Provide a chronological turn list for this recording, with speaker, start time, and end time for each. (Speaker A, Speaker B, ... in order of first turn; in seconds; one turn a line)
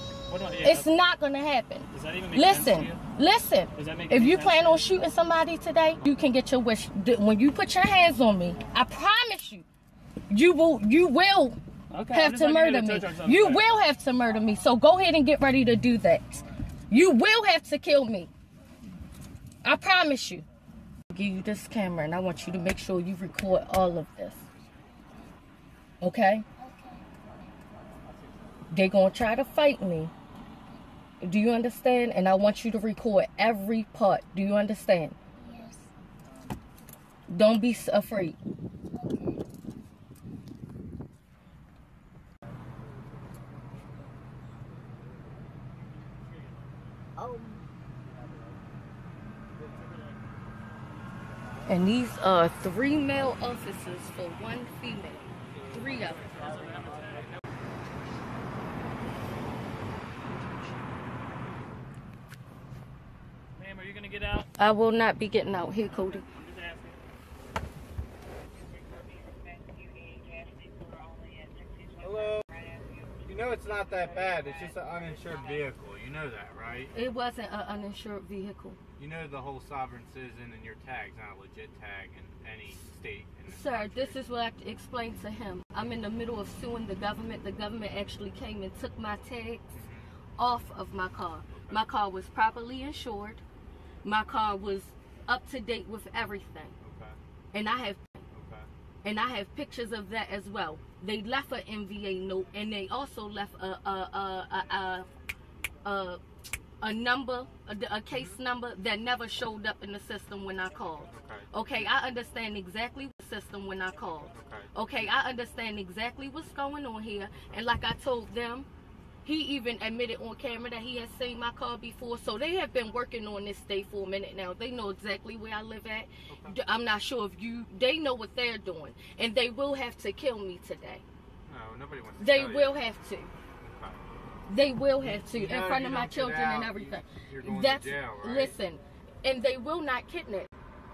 Speaker A: 0.3-0.9
Speaker B: 0.6-9.7
Speaker A: 1.9-3.0
Speaker A: 3.8-4.9
Speaker B: 10.3-11.6
Speaker A: 11.9-13.7
Speaker B: 12.1-18.3
Speaker B: 19.6-20.4
Speaker B: 21.1-24.4
Speaker B: 26.0-26.4
Speaker C: 26.6-27.0
Speaker B: 28.7-30.1
Speaker B: 31.2-35.2
Speaker C: 35.4-35.9
Speaker B: 37.3-38.4
Speaker C: 38.9-39.4
Speaker C: 47.2-47.6
Speaker B: 51.7-56.3
Speaker A: 56.1-57.3
Speaker A: 63.6-64.5
Speaker B: 64.6-66.2
Speaker A: 65.8-67.0
Speaker C: 69.7-71.2
Speaker D: 72.0-72.5
Speaker D: 73.2-76.9
Speaker B: 76.9-78.8
Speaker D: 79.0-84.3
Speaker B: 83.5-89.8
Speaker D: 89.7-90.1
Speaker B: 90.4-93.4
Speaker D: 91.5-91.8
Speaker B: 94.0-96.7
Speaker D: 96.8-97.2
Speaker B: 97.5-98.2
Speaker D: 98.3-98.7
Speaker B: 99.0-105.1
Speaker B: 105.8-106.2
Speaker B: 106.8-118.7
Speaker D: 108.1-108.4
Speaker D: 111.1-111.5
Speaker D: 114.3-114.7
Speaker B: 119.2-131.0
Speaker D: 126.3-126.6
Speaker D: 131.5-132.8
Speaker B: 132.2-133.3
Speaker D: 133.6-134.0
Speaker B: 134.5-140.5
Speaker D: 135.0-138.6